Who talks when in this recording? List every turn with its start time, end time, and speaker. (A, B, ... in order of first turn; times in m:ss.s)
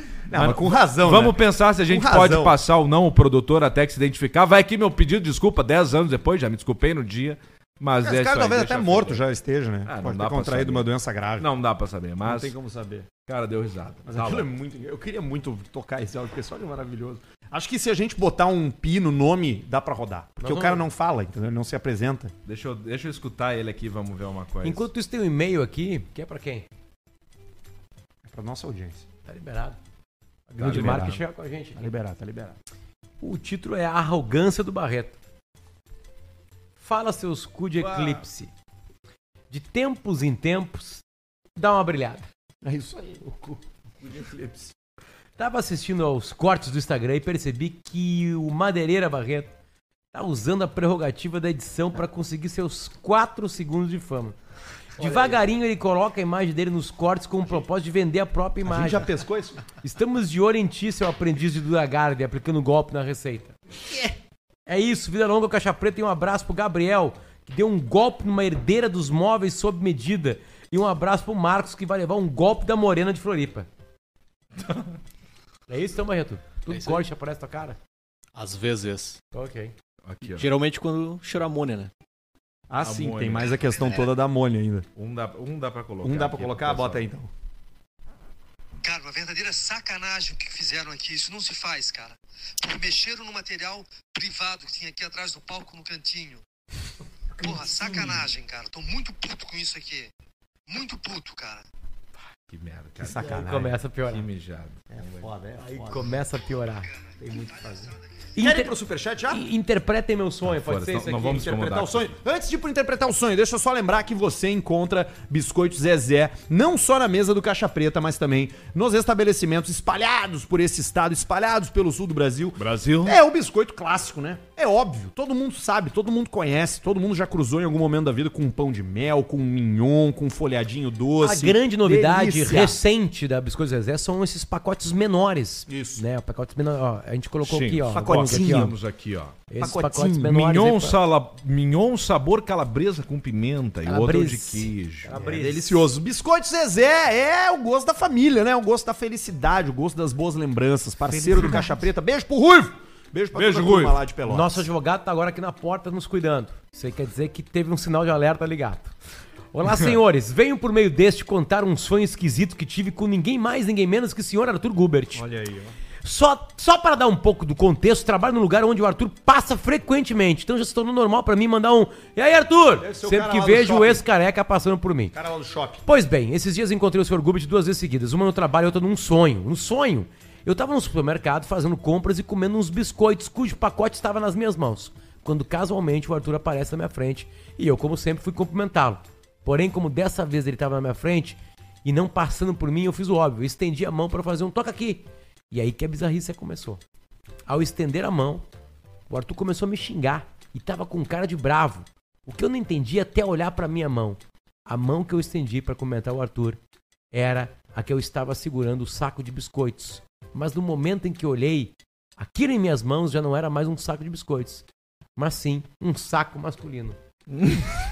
0:00.3-0:02.6 A
0:00.3-0:09.2 B
0:08.0-0:11.5 A
0:09.8-0:12.5 B
0:12.2-0:13.1 A
0:13.2-0:14.5 B
0:14.1-0:22.3 A
0:20.4-0:20.8 C
0:22.4-0:24.9 B
0:24.6-0:26.7 C
0:28.2-0:29.0 A
0:29.2-0:29.8 C
0:30.5-0:31.2 A
0:30.5-0:31.8 C
0:30.6-0:31.2 B
0:31.8-0:32.6 A
0:33.2-0:35.2 C
0:36.8-0:38.5 C
0:37.8-0:38.2 B
0:39.5-0:41.0 C
0:41.6-0:42.3 C
0:42.6-0:44.7 A
0:45.4-0:49.5 C
0:50.1-0:54.4 C
0:55.0-0:55.4 A
0:55.0-0:59.1 C
0:58.6-0:59.6 A
0:59.8-1:03.5 C
1:04.7-1:13.7 C
1:15.7-1:17.8 C
1:16.7-1:17.0 D
1:18.4-1:19.2 D
1:19.3-1:19.7 C
1:20.0-1:20.5 B
1:20.3-1:21.9 D
1:22.7-1:24.9 A
1:22.8-1:23.9 B
1:25.0-1:27.1 B
1:26.0-1:27.3 A
1:28.8-1:36.4 E
1:37.4-1:40.1 E
1:40.7-1:41.6 E
1:42.5-1:45.3 B
1:43.0-1:43.7 A
1:43.0-1:44.2 C
1:45.0-1:46.1 A
1:45.6-1:47.0 C
1:47.2-1:47.8 A
1:48.3-1:48.7 C
1:48.4-1:49.4 A
1:49.3-1:51.4 C
1:50.4-1:52.1 B
1:51.2-2:12.8 A
2:02.6-2:03.2 B
2:11.2-2:18.7 C
2:15.7-2:16.0 A
2:17.4-2:19.4 B
2:17.9-2:18.8 A
2:19.5-2:21.0 C
2:19.6-2:20.4 A
2:20.2-2:25.1 B
2:23.8-2:25.8 C
2:25.1-2:34.7 A
2:31.1-2:31.8 B
2:33.3-2:34.0 B
2:34.2-2:38.9 C
2:39.5-2:45.2 C
2:45.2-2:45.7 A
2:46.0-2:55.1 C
2:52.8-2:54.0 A
2:55.1-2:55.8 A
2:55.8-3:16.8 C
3:17.5-3:18.5 C
3:19.1-3:26.6 C
3:27.1-3:34.6 C
3:35.2-3:37.0 C
3:37.4-3:37.7 B